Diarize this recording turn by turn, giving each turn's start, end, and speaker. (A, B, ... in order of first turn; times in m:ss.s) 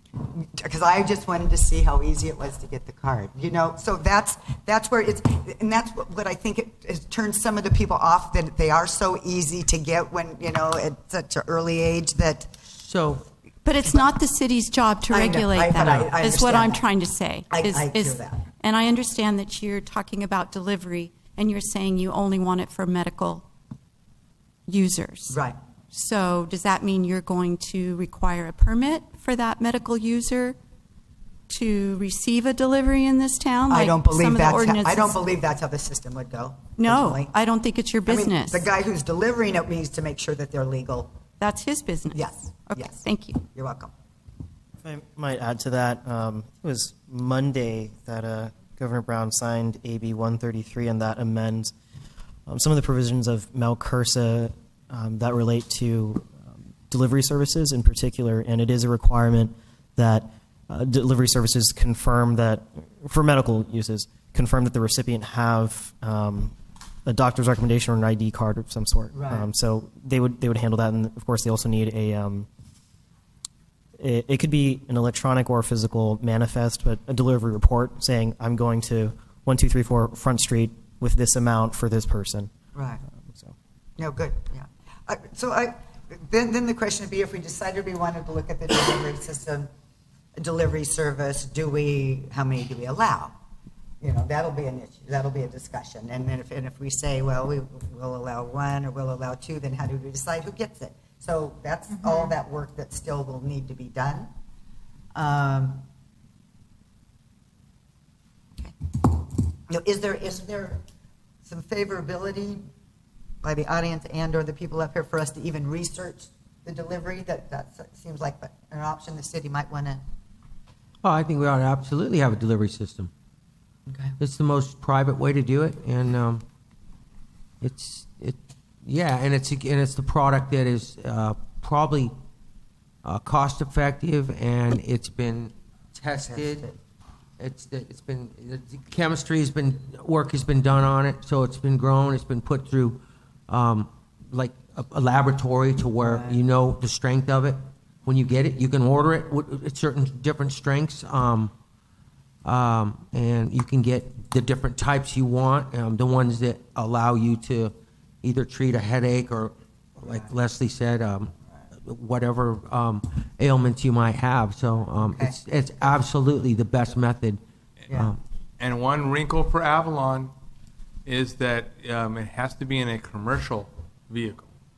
0:00.3-0:12.5 A
0:12.8-0:13.2 B
0:13.6-0:23.4 C
0:15.1-0:16.8 A
0:17.5-0:18.5 A
0:24.7-0:25.4 C
0:25.3-0:25.6 A
0:25.9-0:30.6 C
0:31.5-0:35.2 C
0:33.7-0:37.3 A
0:36.8-0:38.7 C
0:38.1-0:41.1 A
0:41.4-0:42.2 C
0:42.1-0:43.9 A
0:42.7-0:43.4 C
0:44.8-0:51.7 D
0:52.5-1:06.6 D
1:07.1-1:12.5 D
1:09.1-1:09.5 A
1:14.0-1:22.5 D
1:22.7-1:23.0 A
1:23.2-1:23.6 D
1:24.0-1:29.7 A
1:30.4-1:33.3 A
1:34.0-1:44.3 A
1:45.2-1:45.8 A
1:49.7-1:50.8 A
1:51.4-1:52.6 A
1:53.4-2:00.0 A
2:01.0-2:03.1 B
2:03.9-2:04.2 A
2:04.2-2:06.4 B
2:07.6-2:12.1 B
2:13.0-2:16.7 B
2:16.3-2:16.7 A
2:17.4-2:31.5 B
2:26.1-2:26.4 A
2:32.4-2:47.4 B
2:40.0-2:40.3 A
2:45.0-2:45.4 A
2:47.9-2:48.2 B
2:48.6-2:50.3 E
2:51.1-2:54.5 E